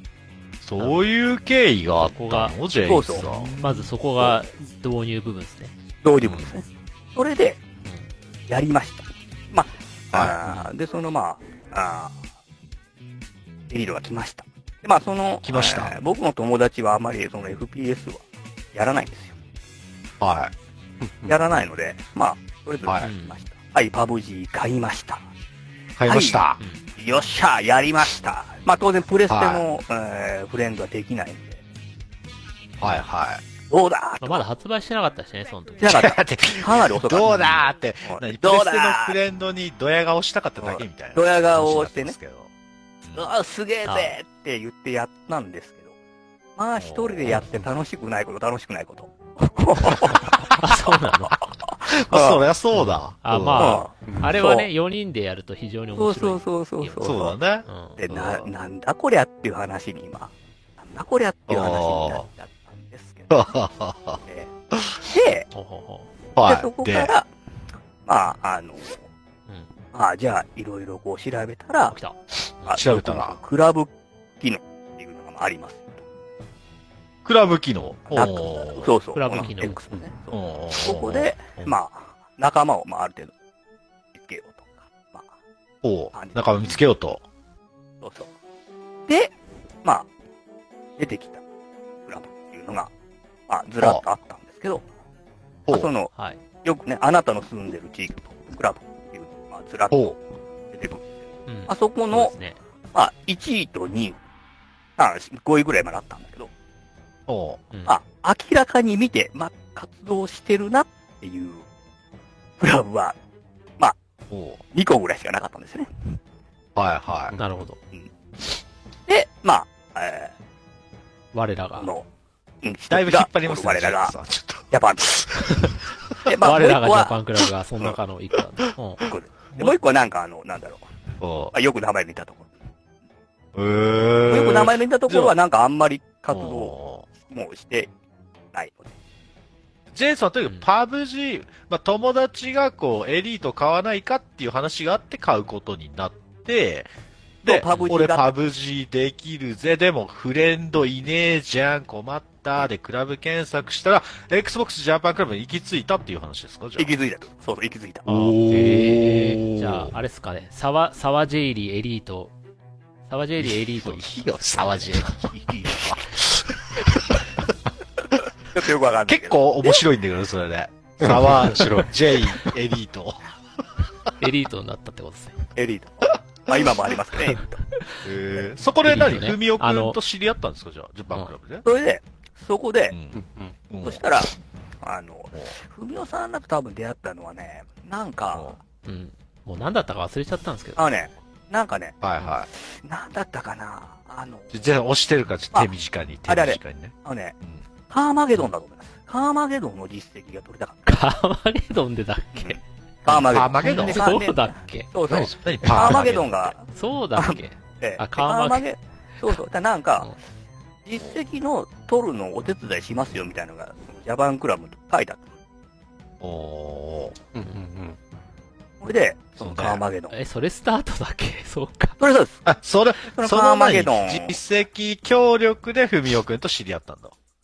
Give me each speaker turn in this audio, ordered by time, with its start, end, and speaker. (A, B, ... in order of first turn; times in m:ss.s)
0:00.6-0:03.9 A
0:01.9-0:02.6 B
0:02.8-0:03.3 C
0:03.2-0:05.7 B
0:06.0-0:07.6 C
0:06.2-0:06.5 A
0:08.5-0:12.2 C
0:10.1-0:10.4 A
0:13.7-0:19.4 C
0:15.4-0:15.9 A
0:20.2-0:20.5 A
0:21.0-0:21.3 D
0:21.2-0:25.2 C
0:22.8-0:23.1 A
0:23.0-0:23.4 B
0:26.0-0:26.6 A
0:26.1-0:31.6 C
0:29.3-0:29.6 A
0:32.8-0:33.4 A
0:33.7-0:34.4 C
0:34.2-0:35.9 B
0:35.8-0:39.2 C
0:35.8-0:42.5 A
0:40.6-0:42.2 C
0:43.0-0:43.3 A
0:43.1-0:45.9 C
0:43.8-0:44.2 B
0:46.6-0:52.4 C
0:46.8-0:47.6 A
0:50.6-0:51.4 B
0:51.3-0:53.9 A
0:52.7-0:58.0 B
0:53.5-0:54.7 C
0:54.0-0:54.4 D
0:56.0-0:57.4 C
0:57.0-0:58.5 A
0:58.0-1:03.3 C
1:01.5-1:02.2 A
1:03.3-1:04.2 A
1:04.7-1:05.0 A
1:05.0-1:05.5 C
1:05.5-1:06.1 B
1:06.4-1:07.1 A
1:06.4-1:07.3 C
1:08.0-1:09.0 C
1:09.9-1:11.9 C
1:11.9-1:12.2 B
1:12.6-1:15.9 C
1:12.7-1:13.4 A
1:17.2-1:18.9 A
1:18.1-1:23.3 C
1:19.1-1:19.8 B
1:20.3-1:21.7 A
1:24.1-1:25.2 C
1:25.8-1:27.2 A
1:26.1-1:26.7 C
1:28.0-1:28.3 C
1:29.1-1:30.1 C
1:31.0-1:31.4 C
1:32.0-1:32.9 C
1:33.5-1:34.9 C
1:35.7-1:36.1 C
1:36.1-1:36.4 B
1:36.6-1:40.2 C
1:40.7-1:41.1 C
1:41.5-1:42.6 B
1:41.7-1:42.3 C
1:42.9-1:44.2 C
1:45.0-1:46.5 C
1:47.3-1:47.6 A
1:47.7-1:48.0 B
1:47.9-1:51.6 C
1:52.6-1:53.2 C
1:54.3-1:54.6 A
1:54.7-1:55.9 C
1:56.8-1:57.4 A
1:57.4-1:57.8 B
1:59.1-2:00.3 C
2:01.3-2:01.9 B
2:01.8-2:02.0 C
2:02.6-2:04.1 C
2:02.9-2:06.3 A
2:04.7-2:05.7 C
2:06.2-2:07.2 C
2:06.4-2:09.7 B
2:08.6-2:09.1 A
2:09.0-2:10.8 C
2:11.2-2:11.5 A
2:11.5-2:12.5 C
2:13.5-2:15.3 A
2:14.3-2:17.9 C
2:16.3-2:17.1 A
2:18.5-2:18.9 C
2:19.9-2:26.9 A
2:27.4-2:36.9 A
2:27.4-2:28.3 C
2:36.8-2:38.1 C
2:38.1-2:39.9 A
2:38.1-2:42.3 B
2:38.5-2:39.4 D
2:43.1-2:44.3 B
2:43.4-2:47.2 A
2:44.5-2:46.0 C
2:48.5-2:49.8 C
2:49.1-2:53.2 A
2:51.0-2:52.5 D
2:54.2-2:55.4 B
2:55.6-2:57.6 C
2:58.0-3:01.6 A
2:58.8-3:00.0 B
3:01.6-3:03.0 C
3:02.9-3:04.0 A
3:03.1-3:03.5 D
3:03.8-3:04.3 C
3:04.8-3:08.5 C
3:08.3-3:08.6 A
3:08.8-3:10.8 B
3:10.8-3:12.0 C
3:12.0-3:12.5 A
3:12.5-3:14.6 C
3:14.5-3:17.6 A
3:16.3-3:17.4 C
3:17.9-3:20.9 C
3:20.9-3:22.6 B
3:22.4-3:30.1 C
3:23.1-3:24.2 A
3:23.6-3:24.9 B
3:25.1-3:26.5 A
3:25.7-3:28.6 B
3:30.8-3:35.2 C
3:36.2-3:37.2 A
3:37.3-3:38.0 D
3:38.8-3:40.2 C
3:39.4-3:39.8 A
3:40.1-3:42.0 B
3:42.0-3:42.4 C
3:42.4-3:47.1 A
3:43.0-3:44.4 C